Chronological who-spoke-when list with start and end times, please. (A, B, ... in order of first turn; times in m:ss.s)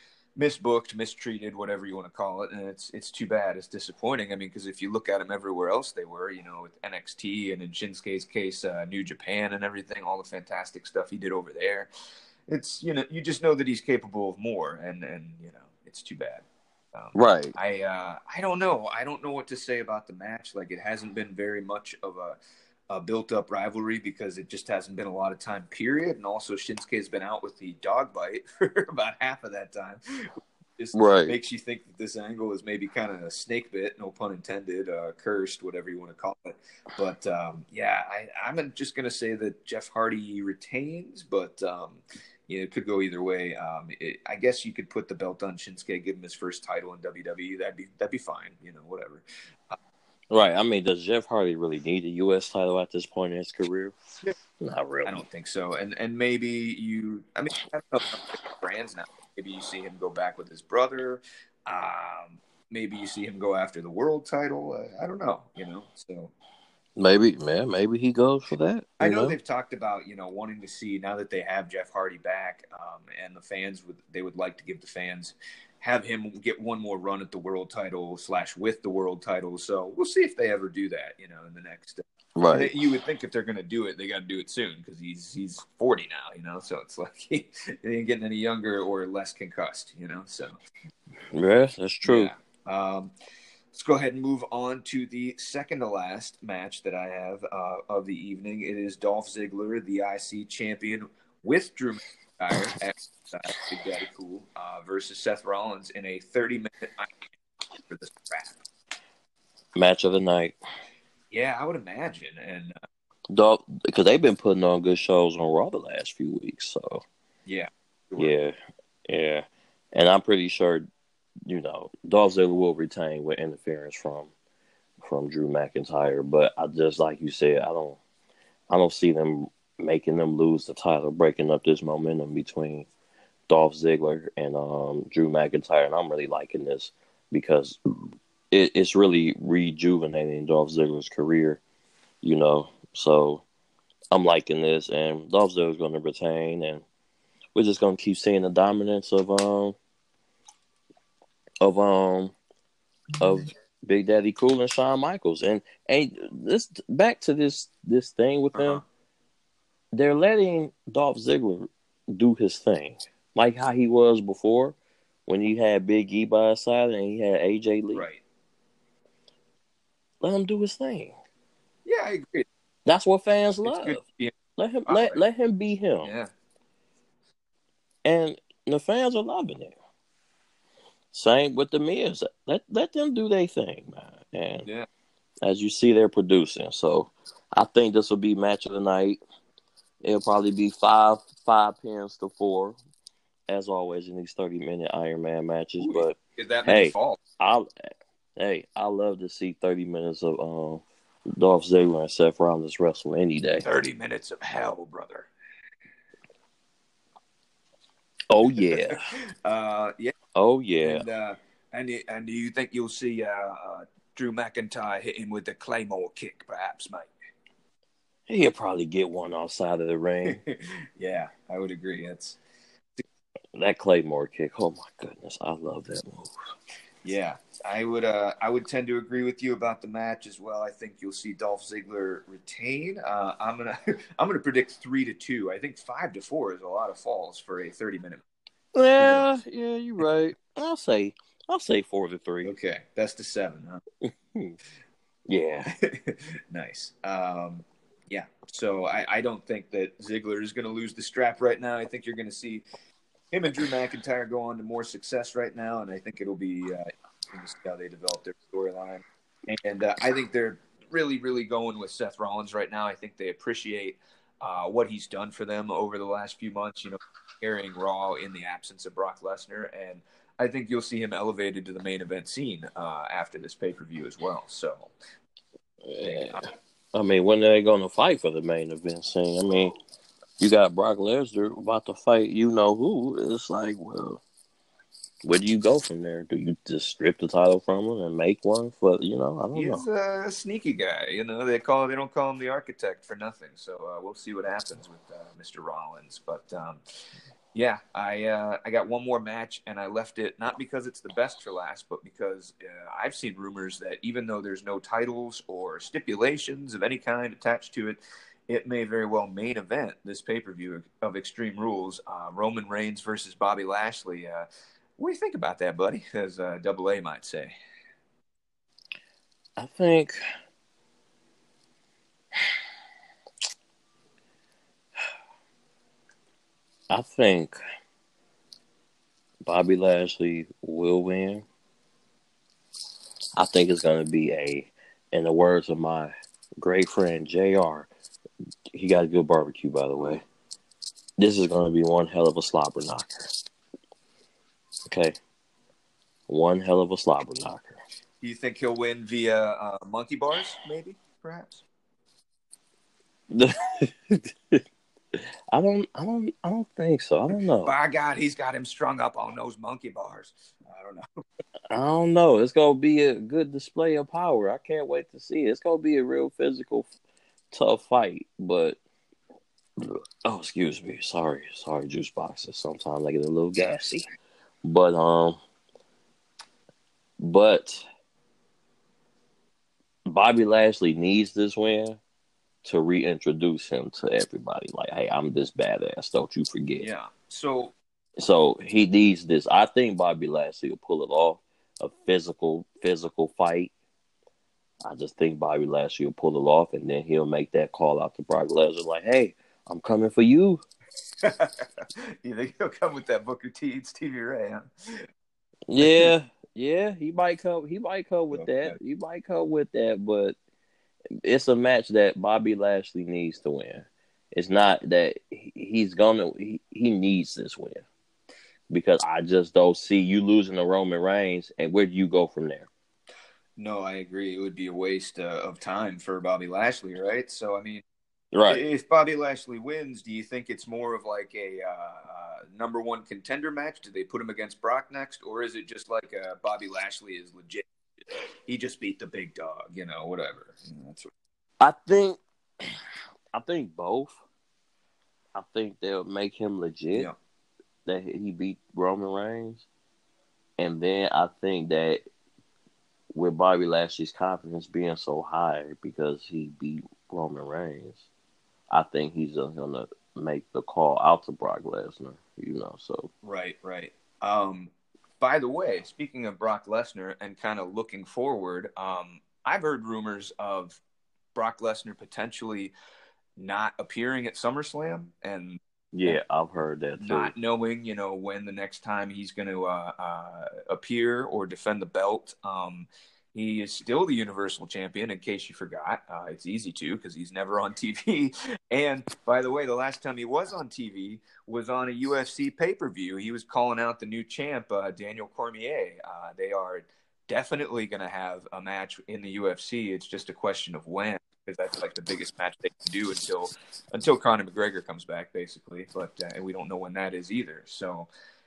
0:00.4-0:11.9 A
0:12.5-0:22.4 A
0:17.1-0:17.5 B
0:22.9-0:49.8 A
0:30.9-0:31.4 B
0:50.3-0:53.9 B
0:54.6-0:55.2 B
0:55.0-1:06.3 A
1:07.0-1:09.4 B
1:09.0-1:30.6 A
1:22.4-1:22.7 B
1:31.3-1:32.3 B
1:32.0-1:33.1 A
1:33.7-1:47.1 A
1:47.9-1:48.6 A
1:49.8-1:50.6 B
1:51.3-1:52.7 A
1:53.3-1:57.0 B
1:57.4-1:58.3 A
1:58.2-1:58.5 B
1:59.1-2:00.9 B
2:01.4-2:04.3 B
2:05.0-2:08.0 B
2:08.7-2:12.9 B
2:13.5-2:17.8 B
2:18.5-2:21.6 B
2:22.2-2:23.4 B
2:24.1-2:26.8 B
2:27.5-2:29.8 B
2:31.6-2:32.3 B
2:33.2-2:38.8 B
2:38.5-2:38.8 A
2:39.9-2:48.0 B
2:47.9-2:48.2 A
2:50.2-2:51.1 B
2:51.8-2:52.5 A
2:52.8-2:54.0 B
2:53.6-2:54.3 A
2:54.5-2:56.1 B
2:54.9-2:55.2 A
2:56.0-2:56.3 A
2:58.0-2:59.7 B
3:01.1-3:04.7 B
3:05.4-3:09.2 B
3:10.0-3:12.8 B
3:13.5-3:17.7 B
3:15.8-3:17.2 A
3:18.4-3:23.7 B
3:23.6-3:25.3 A
3:28.3-3:29.1 B
3:28.6-3:30.1 A
3:30.3-3:31.0 B
3:30.8-3:37.1 A
3:38.3-3:40.4 B
3:40.2-3:42.4 A
3:43.5-3:46.4 B
3:47.0-3:58.2 A
3:58.7-4:02.5 B
3:59.0-3:59.3 A
4:02.4-4:03.8 A
4:04.0-4:04.6 B
4:05.3-4:05.7 B
4:05.6-4:12.6 A
4:13.3-4:34.9 A
4:35.8-4:39.7 B
4:36.0-4:36.4 A
4:40.4-4:44.2 B
4:45.2-4:49.8 B
4:49.5-4:56.8 A
4:57.5-5:14.5 A
5:15.0-5:17.5 A
5:19.6-5:20.2 B
5:26.9-5:27.6 B
5:29.4-5:31.4 B
5:33.4-5:37.9 B
5:38.7-5:40.2 B
5:41.2-5:43.2 B
5:44.9-5:45.2 B
5:46.3-5:47.8 B
5:48.2-5:51.6 A
5:53.3-5:54.6 B
5:55.1-5:57.7 B
5:57.6-6:01.2 A
6:01.7-6:06.9 B
6:07.5-6:08.8 B
6:09.8-6:14.0 B
6:14.6-6:15.4 B
6:17.2-6:17.8 B
6:20.0-6:22.0 B
6:22.6-6:26.9 B
6:26.8-6:27.7 A
6:28.2-6:33.7 B
6:34.8-6:40.6 B
6:41.2-6:44.7 A
6:45.7-6:50.4 B
6:45.8-6:46.1 A
6:48.3-6:48.7 A
6:51.2-6:57.8 B
6:58.7-7:02.7 B
7:03.6-7:07.8 A
7:08.3-7:08.6 B
7:08.5-7:21.1 A
7:21.6-7:22.2 B
7:23.3-7:24.2 B
7:25.3-7:27.1 B
7:27.8-7:29.6 B
7:30.6-7:32.0 B
7:33.1-7:38.0 B
7:38.7-7:43.1 B
7:43.2-7:50.8 A
7:51.3-7:52.7 A
7:53.4-7:56.2 A
7:55.9-7:57.3 B
7:57.0-8:28.1 A